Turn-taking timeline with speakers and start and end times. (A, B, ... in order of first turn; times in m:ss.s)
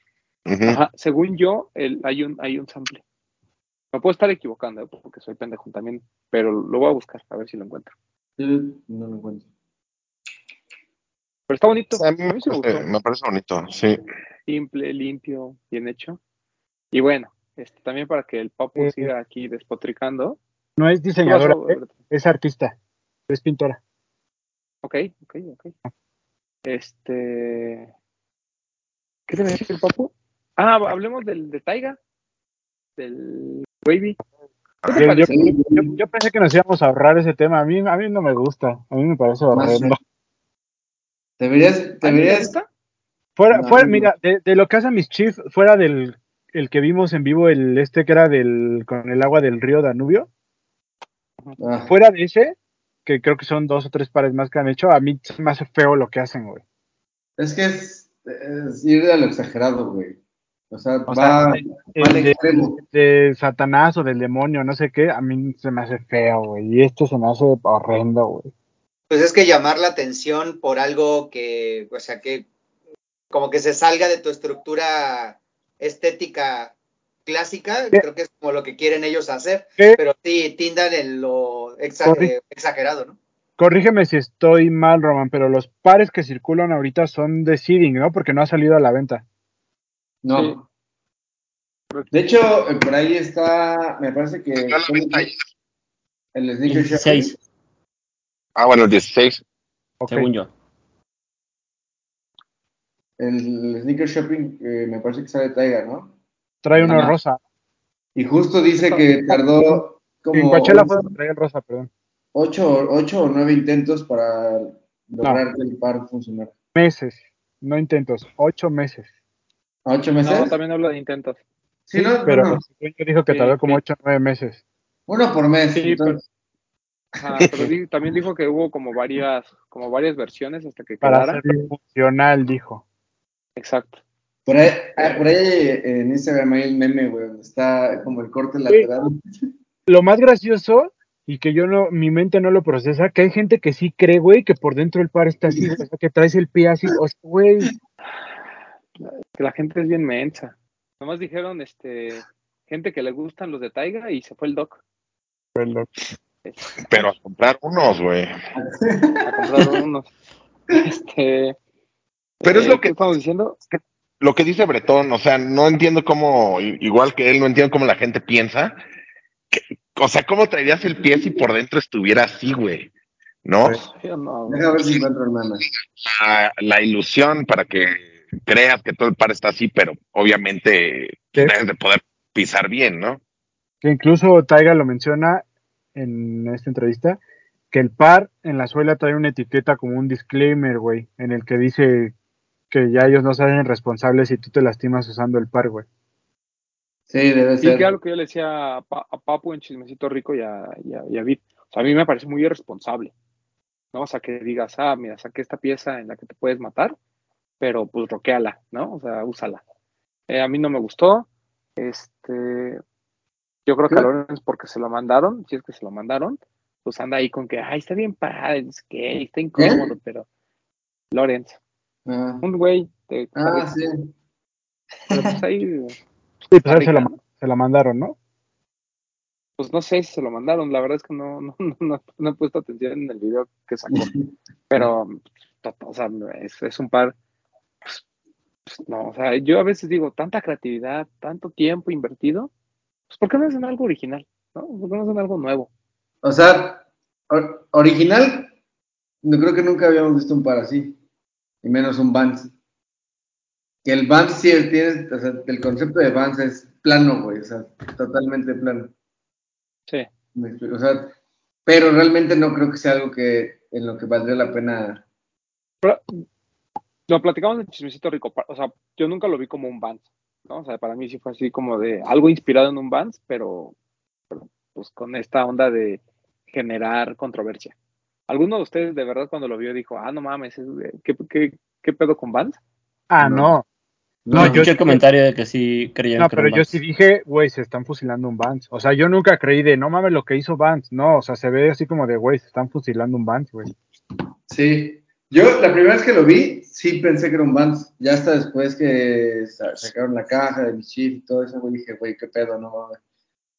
0:00.5-0:00.8 A
0:00.6-0:03.0 B
0:03.9-0:07.9 B
0:08.4-0:09.4 C
0:11.5-0:12.8 B
0:12.0-0:14.0 A
0:14.5-0:16.2 B
0:16.9-0:20.4 B
0:18.8-0:19.1 D
0:20.8-0:22.8 D
0:21.2-0:21.9 B
0:23.3-0:23.8 D
0:24.8-0:25.7 B
0:26.6-0:27.9 B
0:29.3-0:32.0 B
0:33.0-0:34.2 B
0:34.8-0:35.5 B
0:34.9-0:40.0 D
0:35.2-0:35.9 C
0:39.5-0:40.0 C
0:41.4-0:42.6 C
0:42.0-0:42.7 B
0:43.4-0:50.3 D
0:43.5-0:44.1 C
0:51.6-0:51.9 C
0:51.9-0:52.6 D
0:53.1-0:56.6 D
0:57.4-1:00.2 C
1:00.7-1:02.8 C
1:01.1-1:08.5 D
1:09.1-1:12.5 E
1:13.3-1:16.7 E
1:17.3-1:23.2 E
1:22.1-1:22.3 D
1:23.6-1:29.2 D
1:30.2-1:30.6 C
1:30.3-1:30.6 B
1:32.1-1:35.3 C
1:34.7-1:35.4 A
1:36.4-1:37.4 C
1:36.7-1:37.4 F
1:38.6-1:39.4 A
1:40.0-1:40.3 D
1:40.1-1:40.5 F
1:43.2-1:46.1 C
1:46.6-1:47.4 D
1:46.7-1:47.1 C
1:46.9-1:47.1 B
1:48.2-1:51.1 C
1:48.8-1:49.1 B
1:50.3-1:51.9 D
1:52.3-1:56.5 C
1:56.8-1:59.1 D
1:59.9-2:00.6 C
2:00.2-2:01.4 B
2:01.9-2:02.6 C
2:02.0-2:04.6 D
2:03.3-2:03.8 B
2:05.1-2:06.2 C
2:05.7-2:06.2 B
2:07.2-2:11.4 B
2:11.0-2:12.8 D
2:11.4-2:11.7 C
2:13.6-2:14.0 B
2:14.5-2:19.2 C
2:19.9-2:27.7 D
2:29.0-2:34.8 B
2:35.6-2:35.9 D
2:36.4-2:36.7 B
2:36.9-2:38.3 A
2:38.6-2:39.4 C
2:39.2-2:40.1 B
2:40.7-2:41.6 B
2:42.4-2:43.6 B
2:42.4-2:43.1 A
2:43.7-2:48.8 A
2:49.5-2:52.9 A
2:53.4-2:53.8 A
2:53.9-2:54.8 B
2:54.5-2:55.6 C
2:55.8-3:03.2 A
3:03.8-3:07.2 D
3:07.7-3:12.1 D
3:12.7-3:15.9 D
3:17.1-3:17.9 C
3:17.6-3:23.1 B
3:23.9-3:27.0 B
3:27.6-3:29.6 B
3:30.3-3:31.3 B
3:31.8-3:32.8 B
3:33.7-3:40.3 B
3:39.6-3:39.9 C
3:41.1-3:41.6 B
3:42.1-3:42.4 C
3:42.4-3:43.7 B
3:43.4-3:44.1 C
3:45.1-3:46.0 B
3:46.5-3:47.2 B
3:46.5-3:48.2 D
3:49.6-3:54.1 B
3:53.9-3:54.9 C
3:54.7-3:57.2 B
3:58.7-4:02.5 B
4:03.1-4:05.7 B
4:06.2-4:08.5 C
4:09.2-4:11.0 C
4:11.6-4:12.5 C
4:13.8-4:18.9 C
4:20.4-4:21.1 C
4:21.7-4:25.0 C
4:27.1-4:33.8 B
4:34.3-4:37.8 B
4:38.3-4:42.6 B
4:43.1-4:43.6 D
4:43.2-4:43.5 C
4:44.3-4:44.7 C
4:44.3-4:45.0 D
4:44.3-4:46.8 F
4:46.2-4:53.7 D
4:54.5-5:03.0 C